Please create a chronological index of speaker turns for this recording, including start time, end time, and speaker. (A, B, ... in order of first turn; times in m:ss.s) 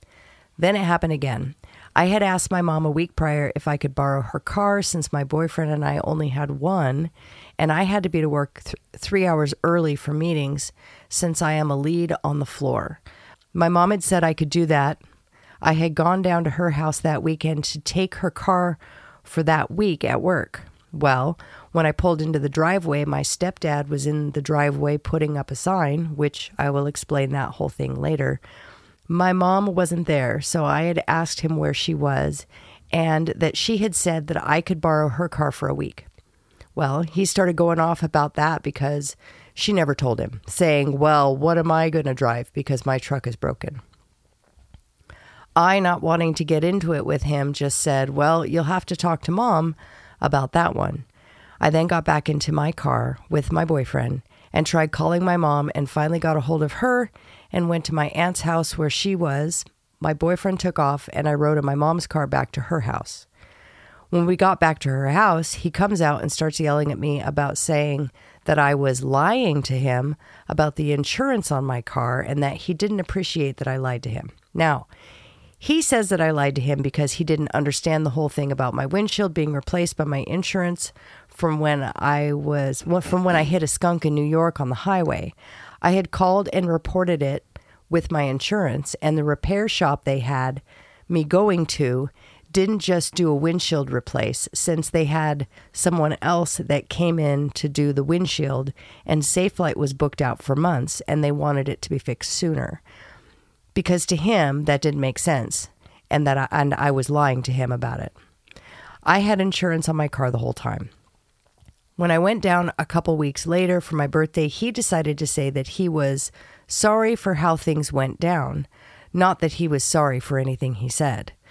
0:00.6-0:13.0 A
0:13.5-0:15.0 A
0:15.6-0:28.4 A
0:29.1-0:36.1 A
0:36.8-0:43.8 A
0:45.6-0:51.0 A
0:51.6-1:03.2 A
1:04.1-1:14.9 A
1:15.6-1:42.8 A
1:43.7-1:48.1 A
1:49.0-1:50.9 A
1:52.0-2:01.3 A